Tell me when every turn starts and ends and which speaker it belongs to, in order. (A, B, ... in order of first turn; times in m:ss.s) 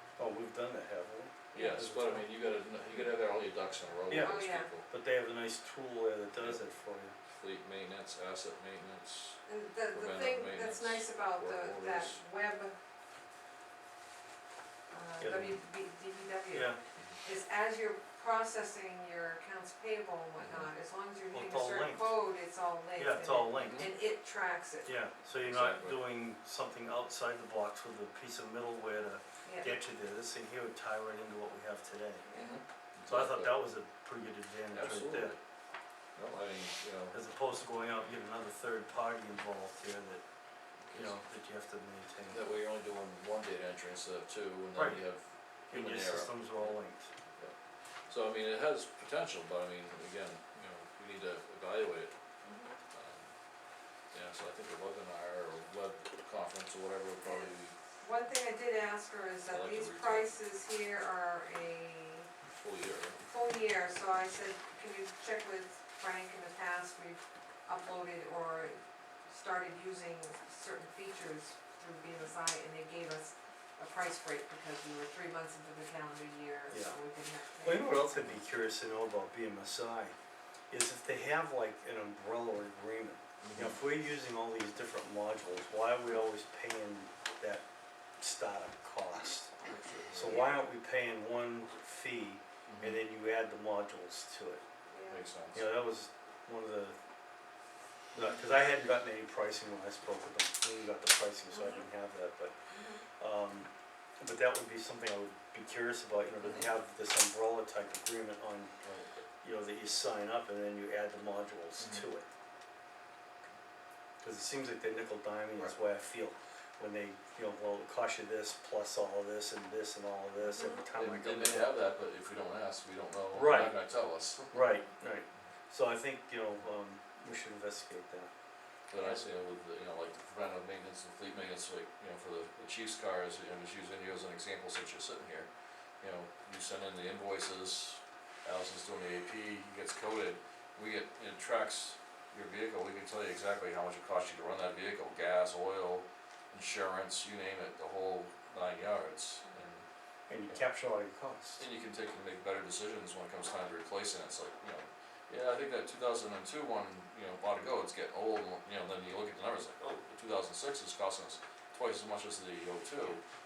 0:00.2-0:02.3 A
0:01.5-0:04.8 B
0:04.1-0:07.1 A
0:04.1-0:04.7 C
0:07.4-0:09.4 B
0:09.5-0:12.8 C
0:09.9-0:12.2 B
0:14.9-0:24.9 C
0:15.2-0:15.6 A
0:16.5-0:16.8 A
0:20.4-0:20.7 B
0:21.3-0:22.2 A
0:23.0-0:23.9 A
0:23.5-0:23.9 B
0:24.8-0:32.2 A
0:25.4-0:26.0 B
0:29.4-0:29.8 C
0:32.2-0:32.6 C
0:32.3-0:33.6 B
0:33.1-0:35.3 A
0:34.7-0:35.4 B
0:36.1-0:37.1 B
0:37.1-0:40.2 A
0:40.8-0:41.2 B
0:40.9-0:42.4 A
0:42.3-0:46.7 B
0:44.7-0:45.0 A
0:45.7-0:47.1 A
0:48.1-0:52.1 B
0:52.4-0:52.7 C
0:52.9-0:53.3 B
0:54.1-0:57.7 B
0:57.2-1:02.3 C
0:59.5-1:00.4 B
1:02.6-1:03.2 B
1:03.2-1:18.0 C
1:17.6-1:20.1 A
1:20.7-1:27.6 A
1:23.4-1:23.8 B
1:28.2-1:29.5 A
1:29.6-1:30.5 B
1:30.1-1:34.6 A
1:32.7-1:33.0 B
1:34.9-1:35.2 C
1:35.1-1:35.7 B
1:35.5-1:37.0 A
1:38.1-1:42.5 A
1:41.5-1:41.8 C
1:42.7-1:43.0 C
1:43.2-1:43.7 A
1:44.2-1:52.2 A
1:54.2-2:01.7 A
2:00.4-2:00.8 C
2:00.9-2:04.5 B
2:03.3-2:03.8 A
2:04.5-2:08.3 A
2:08.9-2:15.5 B
2:08.9-2:09.2 C
2:16.0-2:29.8 B
2:30.3-2:31.6 A
2:31.6-2:43.2 B